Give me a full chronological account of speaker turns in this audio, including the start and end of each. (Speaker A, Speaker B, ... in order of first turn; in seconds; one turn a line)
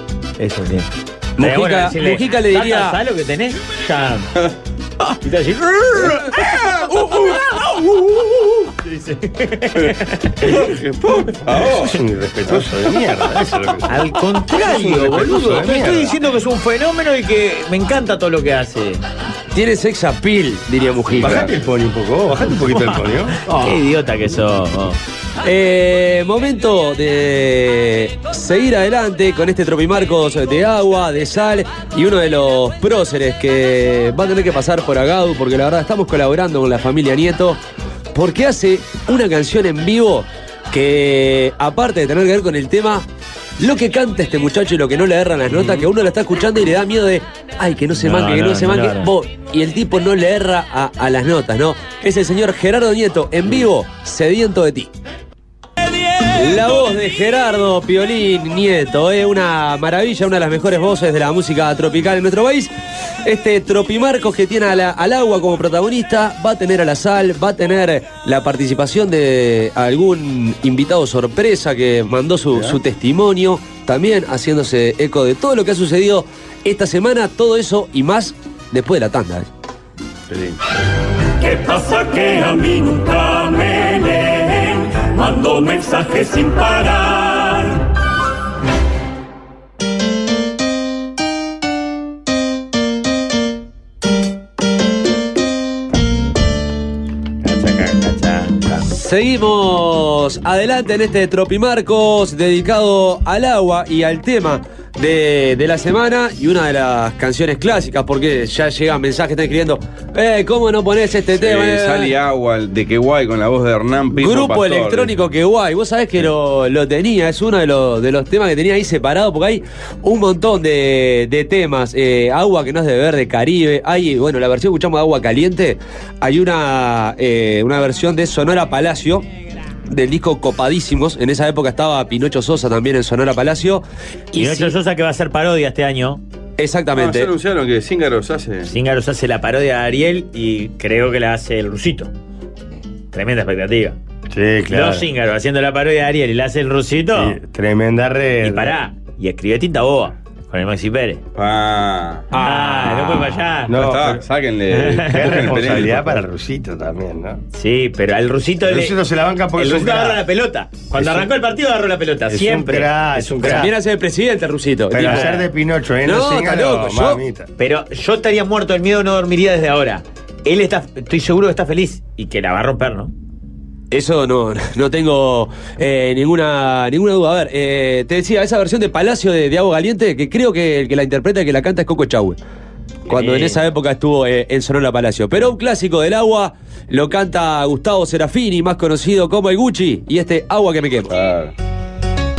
Speaker A: 0.4-4.3
Speaker B: 1.4-3.0
Speaker A: 5.2-6.2
Speaker C: 6.4-7.2
Speaker A: 8.7-10.7
Speaker C: 9.8-12.7
Speaker D: 11.8-13.9
Speaker A: 13.9-19.0
Speaker D: 14.5-16.1
Speaker C: 15.2-15.8
Speaker B: 19.5-21.4
Speaker D: 21.2-23.8
Speaker C: 21.2-21.5
Speaker A: 23.4-25.0
Speaker B: 25.4-37.6
Speaker B: 38.1-43.0
Speaker B: 43.6-54.9
Speaker A: 45.5-45.8
Speaker A: 48.0-49.1
Speaker B: 56.2-62.7
Speaker B: 63.2-79.5
Speaker C: 72.5-72.8
Speaker C: 80.3-80.6
Speaker E: 81.4-87.9
Speaker A: 97.4-98.9
Speaker B: 98.8-112.1
Speaker C: 111.3-115.1
Speaker B: 114.2-129.2
Speaker B: 129.9-134.7
Speaker A: 134.3-136.2
Speaker B: 136.6-137.3
Speaker C: 136.9-138.7
Speaker A: 138.6-142.1
Speaker A: 143.1-144.0
Speaker D: 144.3-145.1
Speaker A: 144.7-147.4
Speaker D: 147.1-148.8
Speaker A: 148.4-151.2
Speaker C: 151.3-152.3
Speaker B: 152.3-153.3
Speaker A: 152.3-153.7
Speaker D: 153.7-154.2
Speaker C: 153.7-156.2
Speaker A: 154.7-155.4
Speaker D: 155.1-157.4
Speaker A: 157.5-159.0
Speaker D: 158.6-160.2
Speaker A: 159.6-163.7
Speaker D: 160.9-161.3
Speaker D: 162.3-163.7
Speaker B: 163.4-165.3
Speaker D: 164.9-167.5
Speaker A: 164.9-165.5
Speaker B: 166.0-167.2
Speaker A: 167.6-173.1
Speaker B: 173.9-182.4
Speaker B: 183.1-191.1
Speaker A: 183.1-183.6
Speaker C: 191.1-191.5